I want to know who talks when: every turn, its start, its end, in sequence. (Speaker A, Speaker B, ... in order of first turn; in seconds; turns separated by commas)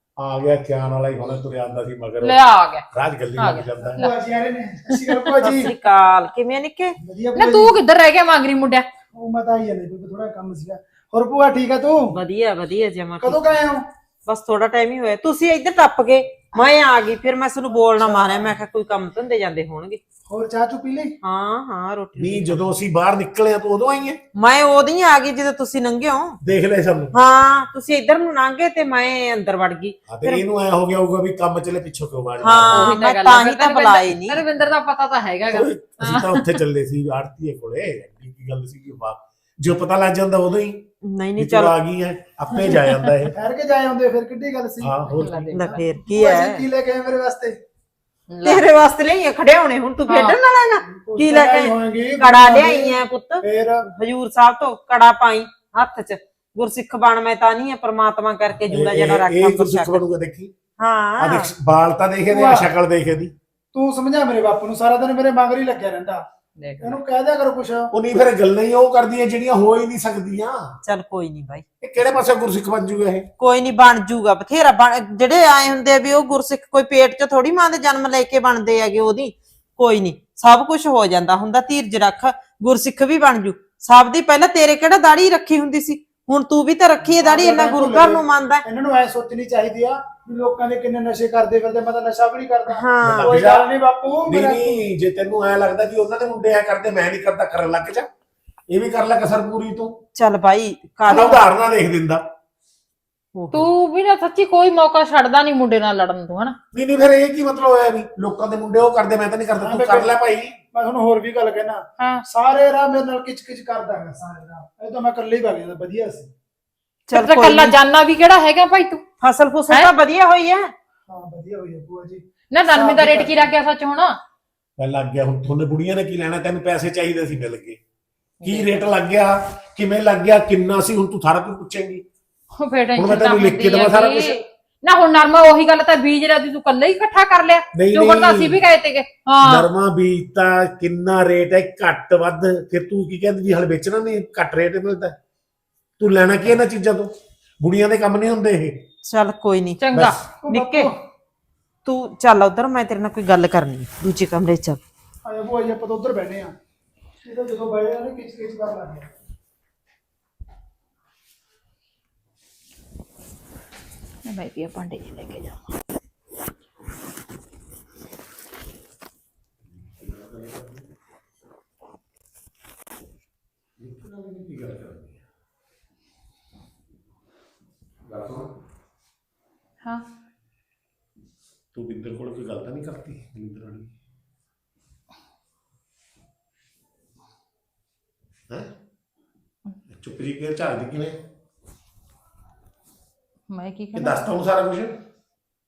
Speaker A: 0.2-2.4, Speaker B: 2.2-2.9, Speaker A: 2.9-4.0, Speaker B: 3.4-4.1, Speaker C: 3.9-5.7, Speaker D: 5.4-7.0, Speaker C: 7.0-7.8, Speaker B: 7.3-8.9, Speaker C: 9.1-12.2, Speaker D: 12.1-13.4, Speaker C: 13.2-13.8, Speaker D: 14.3-20.0, Speaker C: 18.0-18.4, Speaker C: 20.3-21.1, Speaker D: 21.2-22.7, Speaker A: 22.2-24.2, Speaker D: 24.4-26.4, Speaker A: 26.4-27.1, Speaker D: 27.1-30.4, Speaker A: 30.1-32.9, Speaker D: 32.4-34.4, Speaker B: 32.7-36.6, Speaker A: 35.5-40.9, Speaker D: 41.0-41.8, Speaker A: 41.4-43.4, Speaker B: 42.6-43.1, Speaker C: 43.4-45.0, Speaker A: 44.8-45.7, Speaker B: 45.1-45.9, Speaker D: 45.5-46.6, Speaker C: 46.0-47.5, Speaker B: 48.3-48.6, Speaker D: 48.4-60.0, Speaker B: 50.1-50.4, Speaker C: 50.9-53.9, Speaker A: 58.7-60.5, Speaker D: 60.8-61.5, Speaker A: 61.2-63.3, Speaker C: 62.3-62.7, Speaker C: 63.7-66.2, Speaker B: 66.6-67.0, Speaker C: 66.8-67.9, Speaker A: 67.9-70.8, Speaker D: 70.8-71.6, Speaker A: 71.8-73.3, Speaker D: 73.4-88.7, Speaker C: 87.1-94.8, Speaker D: 92.7-93.3, Speaker A: 93.0-93.7, Speaker A: 94.3-98.1, Speaker A: 98.7-100.0, Speaker D: 100.2-101.4, Speaker A: 101.1-102.2, Speaker D: 103.3-103.7, Speaker B: 103.5-106.6, Speaker A: 106.7-110.6, Speaker C: 109.6-110.1, Speaker C: 110.7-116.3, Speaker D: 117.1-117.8, Speaker B: 117.1-119.0, Speaker D: 119.2-120.7, Speaker C: 121.1-123.5, Speaker B: 122.5-124.2, Speaker A: 124.8-127.8, Speaker B: 128.4-128.7, Speaker A: 128.4-132.0, Speaker B: 132.6-139.7, Speaker A: 133.0-134.4, Speaker A: 137.8-138.6, Speaker A: 139.4-145.2, Speaker A: 146.0-148.8, Speaker D: 149.1-149.8, Speaker B: 149.8-150.9, Speaker A: 149.9-150.2, Speaker D: 150.5-150.9, Speaker D: 151.8-154.8, Speaker C: 155.3-156.5, Speaker C: 157.2-159.1, Speaker B: 164.3-165.7, Speaker A: 169.8-170.9, Speaker A: 173.8-175.2, Speaker A: 178.1-178.5, Speaker A: 181.7-183.9, Speaker A: 189.9-191.2, Speaker B: 193.5-194.2, Speaker A: 193.9-195.0